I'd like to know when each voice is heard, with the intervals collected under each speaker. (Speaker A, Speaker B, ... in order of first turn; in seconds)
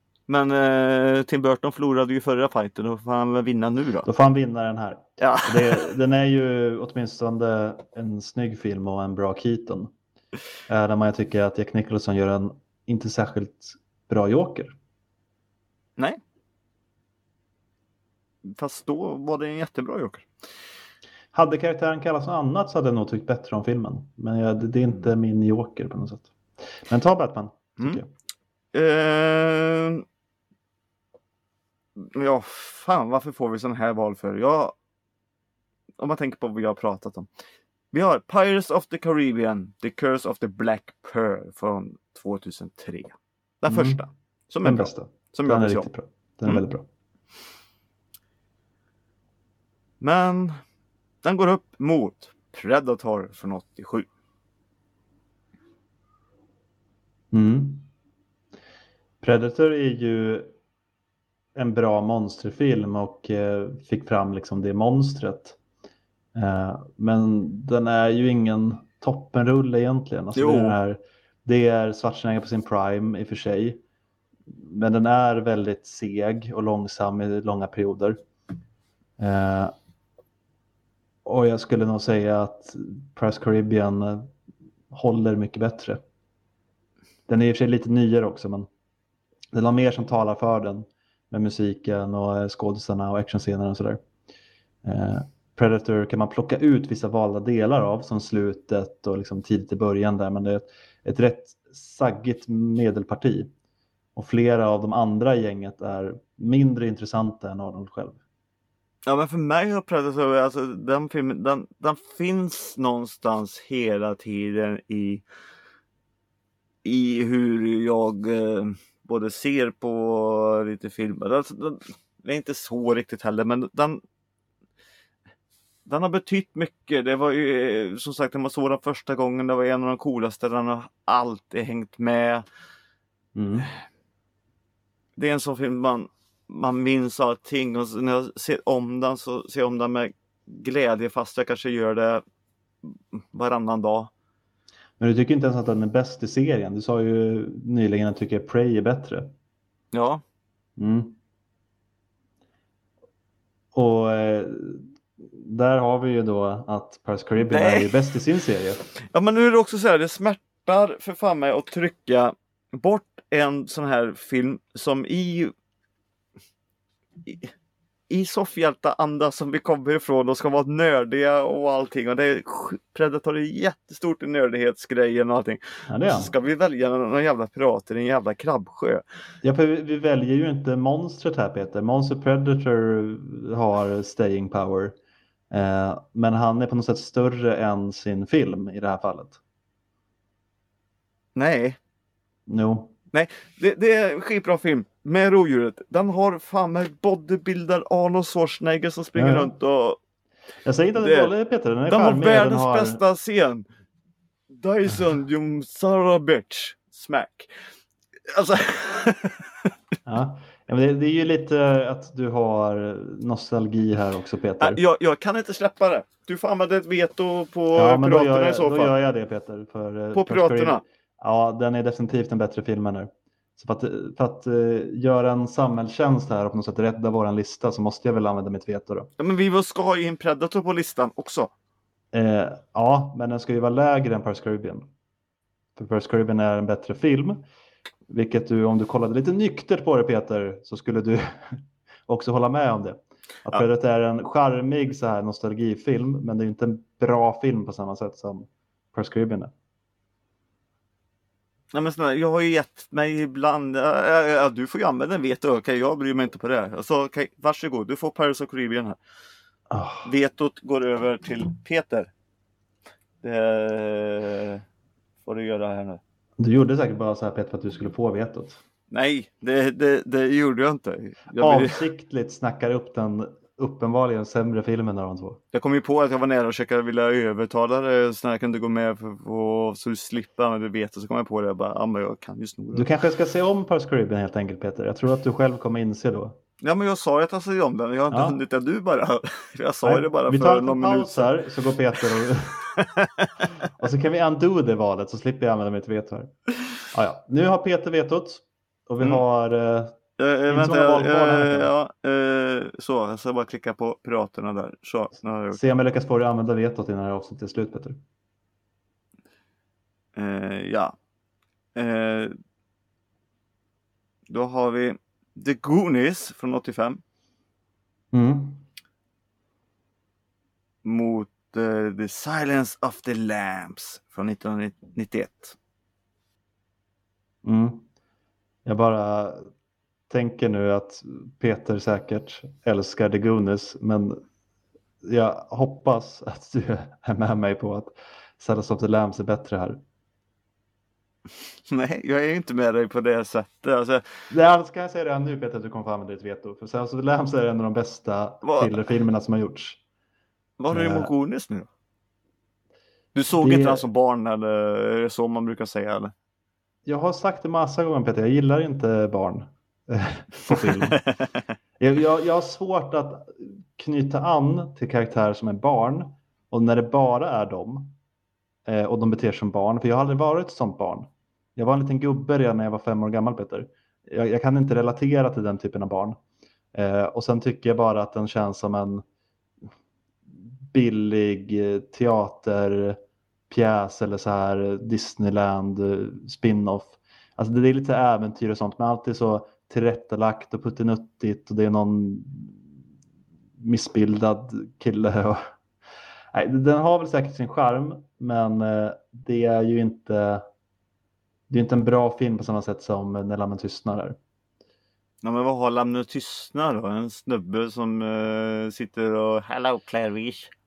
Speaker A: 0.3-4.1, 5.2-5.9, 18.4-20.3, 28.7-30.1, 31.9-34.7, 36.0-37.3, 37.9-45.9, 50.0-50.6, 51.2-54.1, 70.4-70.8, 109.1-115.2, 116.8-124.0, 125.9-132.4, 135.2-142.2, 142.8-144.1, 149.9-150.2, 157.5-158.0, 159.1-165.5, 167.2-167.5, 168.1-179.0, 191.4-191.8, 193.1-200.0, 201.0-201.3, 201.9-203.7, 204.5-207.5, 208.3-209.7, 214.6-218.9, 220.1-220.8, 229.2-231.5, 251.7-259.0, 260.1-262.1, 263.2-264.6, 265.2-266.0, 268.9-271.8, 275.5-282.9, 286.6-291.3, 292.7-293.5, 300.2-305.6, 310.1-310.9, 311.7-312.4, 314.3-317.0, 320.8-325.6, 341.7-344.0, 348.4-348.8, 350.6-351.7, 353.1-356.1, 360.5-361.4, 405.2-410.5
Speaker B: 4.1-9.9, 10.7-14.8, 21.3-26.3, 26.8-28.1, 43.7-44.0, 44.6-46.9, 57.3-57.9, 59.2-60.5, 61.5-65.6, 66.3-73.8, 74.5-78.2, 79.2-79.7, 81.2-84.3, 84.9-86.0, 87.3-88.7, 89.5-94.0, 94.8-103.5, 104.2-108.2, 133.3-133.7, 145.0-149.3, 150.8-151.2, 153.7-158.8, 175.9-176.3, 179.4-184.9, 185.5-189.4, 192.5-192.9, 199.1-199.5, 200.6-203.0, 210.1-214.8, 217.7-229.1, 232.1-234.9, 235.8-237.4, 238.1-249.5, 259.7-260.1, 266.4-268.6, 271.4-275.4, 282.7-286.4, 288.1-288.4, 289.8-292.6, 293.7-296.3, 296.9-300.0, 300.5-301.7, 305.5-308.0, 318.1-318.6, 327.4-327.9, 328.6-329.5, 330.1-334.2, 335.0-339.8, 344.3-349.8, 350.7-351.1, 353.4-353.9, 356.9-361.0, 361.8-367.9, 368.6-376.2, 376.7-379.0, 380.7-392.6, 393.6-395.4, 396.3-400.4, 401.5-404.2